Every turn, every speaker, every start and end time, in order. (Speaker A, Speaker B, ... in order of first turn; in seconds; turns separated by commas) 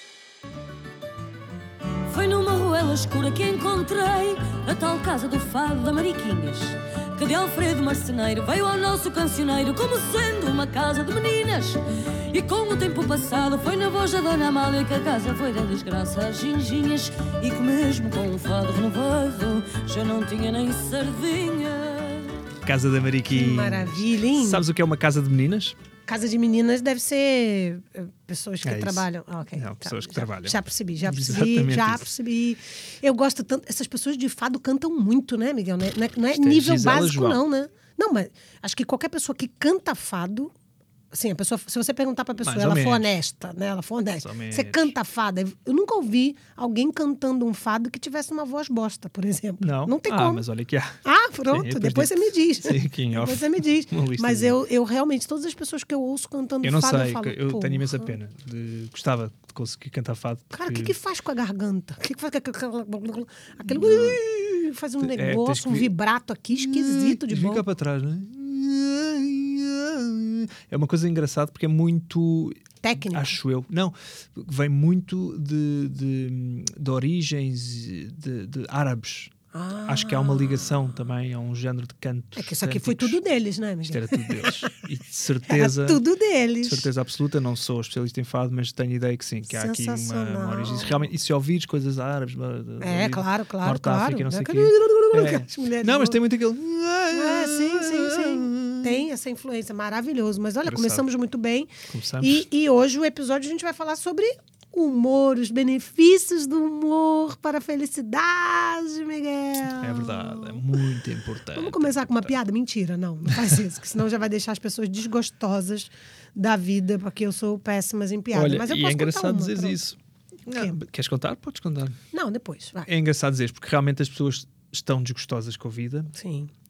Speaker A: 2.1-22.4, Speaker B: 22.6-25.8, Speaker C: 23.3-24.6, Speaker C: 26.1-40.5, Speaker B: 28.6-32.1, Speaker B: 36.3-37.4, Speaker C: 41.1-50.4, Speaker B: 42.4-43.1, Speaker B: 44.2-44.9, Speaker B: 49.6-54.6, Speaker C: 51.0-58.1, Speaker B: 56.6-60.9, Speaker C: 60.5-67.6, Speaker B: 63.6-64.2, Speaker B: 65.0-65.9, Speaker B: 66.5-79.3, Speaker C: 72.8-73.4, Speaker C: 79.5-80.8, Speaker B: 79.8-83.2, Speaker C: 82.4-84.8, Speaker B: 83.8-86.0, Speaker C: 85.5-86.9, Speaker B: 86.6-99.1, Speaker C: 89.5-91.1, Speaker C: 92.8-96.2, Speaker C: 97.1-110.8, Speaker B: 100.6-101.1, Speaker B: 101.9-102.4, Speaker B: 109.8-112.3, Speaker C: 111.5-119.8, Speaker B: 118.3-122.0, Speaker C: 120.5-120.8, Speaker C: 122.1-122.9, Speaker B: 122.9-126.1, Speaker C: 126.1-126.5